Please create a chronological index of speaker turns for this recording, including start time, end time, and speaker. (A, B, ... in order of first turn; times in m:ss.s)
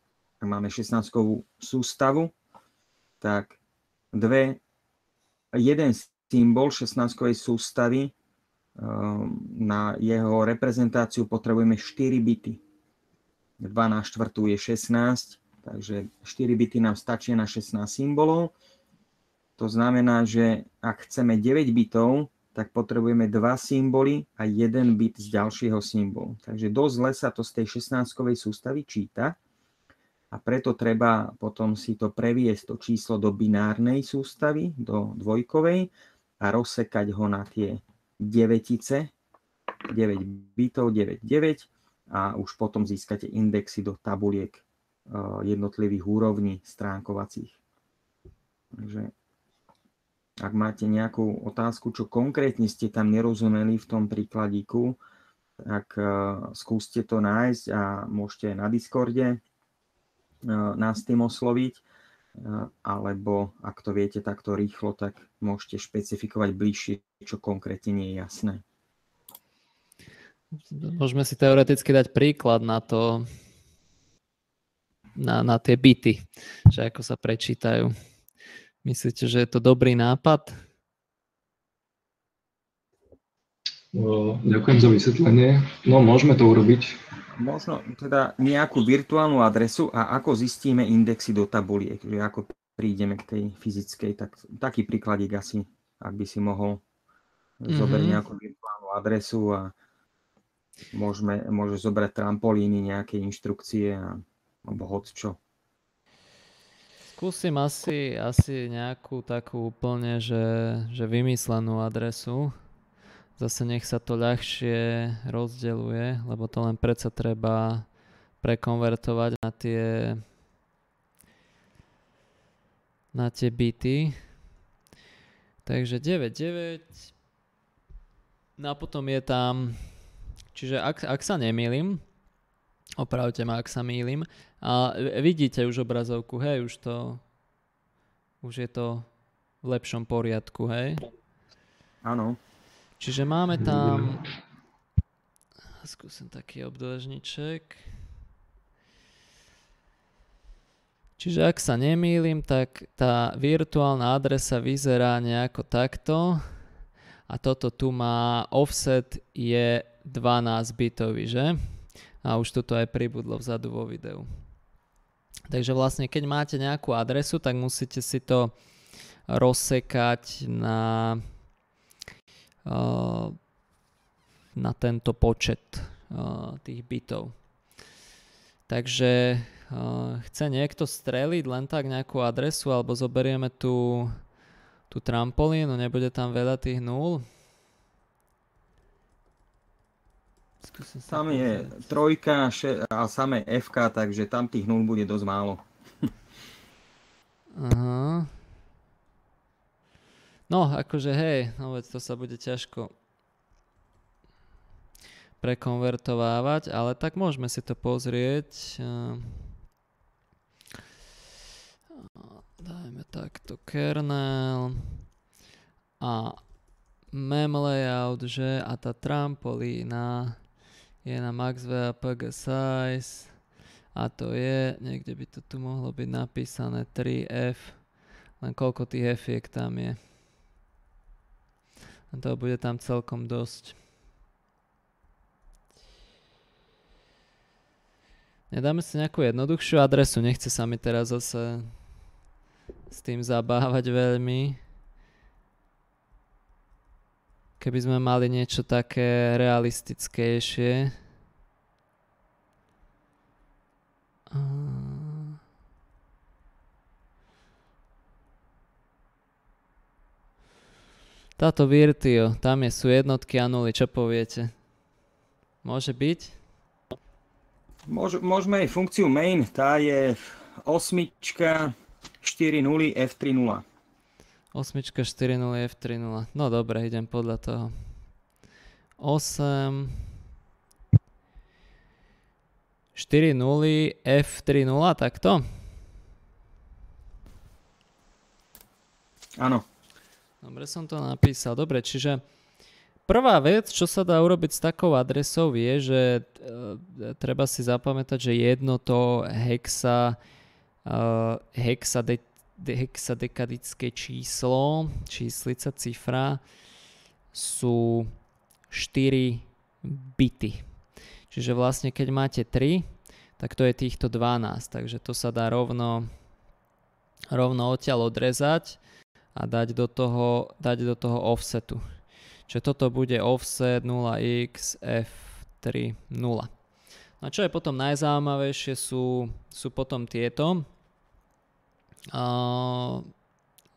0:00.4-0:02.3 A
0:03.2-0:03.6 A
0:04.1-0:04.6 A
0:05.5-0:08.1 A
0:08.8-0:12.6 A
0:13.6-0:18.5 A
0:19.6-0:29.4 A
0:30.3-0:39.1 A
0:39.9-0:47.6 A
0:48.7-0:49.1 A
0:50.4-0:55.0 A
0:55.6-0:59.4 A
1:00.4-1:01.8 A
1:02.4-1:08.6 A
1:10.7-1:13.3 B
1:15.2-1:17.9 B
1:18.8-1:20.6 B
1:23.9-1:27.0 C
1:27.4-1:36.8 A
1:37.6-1:39.7 A
1:37.7-1:38.2 B
1:40.9-1:45.4 A
1:47.1-1:52.5 B
1:53.4-1:57.9 B
1:58.4-2:00.2 B
2:03.1-2:04.1 B
2:05.6-2:07.1 B
2:08.6-2:09.9 B
2:10.5-2:12.0 B
2:13.0-2:17.2 B
2:18.4-2:19.1 B
2:19.6-2:21.0 B
2:22.0-2:22.4 A
2:23.0-2:24.2 B
2:23.7-2:24.2 C
2:25.8-2:27.8 B
2:31.2-2:36.4 B
2:37.3-2:41.6 B
2:42.2-2:44.2 B
2:45.5-2:48.5 B
2:49.3-2:51.2 B
2:52.6-2:53.4 B
2:54.5-2:57.4 B
2:58.7-3:04.1 B
3:04.9-3:07.2 B
3:10.6-3:11.8 B
3:11.1-3:15.6 A
3:17.6-3:18.3 B
3:20.5-3:22.9 B
3:25.4-3:29.5 B
3:32.2-3:34.9 B
3:36.0-3:36.4 B
3:37.1-3:40.4 B
3:41.0-3:43.3 B
3:43.9-3:50.0 B
3:52.1-3:53.8 B
3:58.5-4:01.7 B
4:02.9-4:04.6 B
4:07.6-4:10.9 B
4:14.3-4:15.4 B
4:21.4-4:24.5 B
4:25.6-4:26.4 B
4:27.9-4:33.6 A
4:34.5-4:37.7 B
4:39.0-4:39.9 B
4:42.9-4:45.4 B
4:49.4-4:49.6 A
4:50.4-4:52.2 B
4:53.0-5:00.2 B
5:00.8-5:06.4 B
5:07.3-5:08.1 B
5:08.7-5:10.6 B
5:11.3-5:12.9 B
5:13.4-5:16.1 B
5:17.3-5:18.8 B
5:19.3-5:21.8 B
5:22.5-5:26.5 B
5:27.2-5:30.6 B
5:32.1-5:33.1 B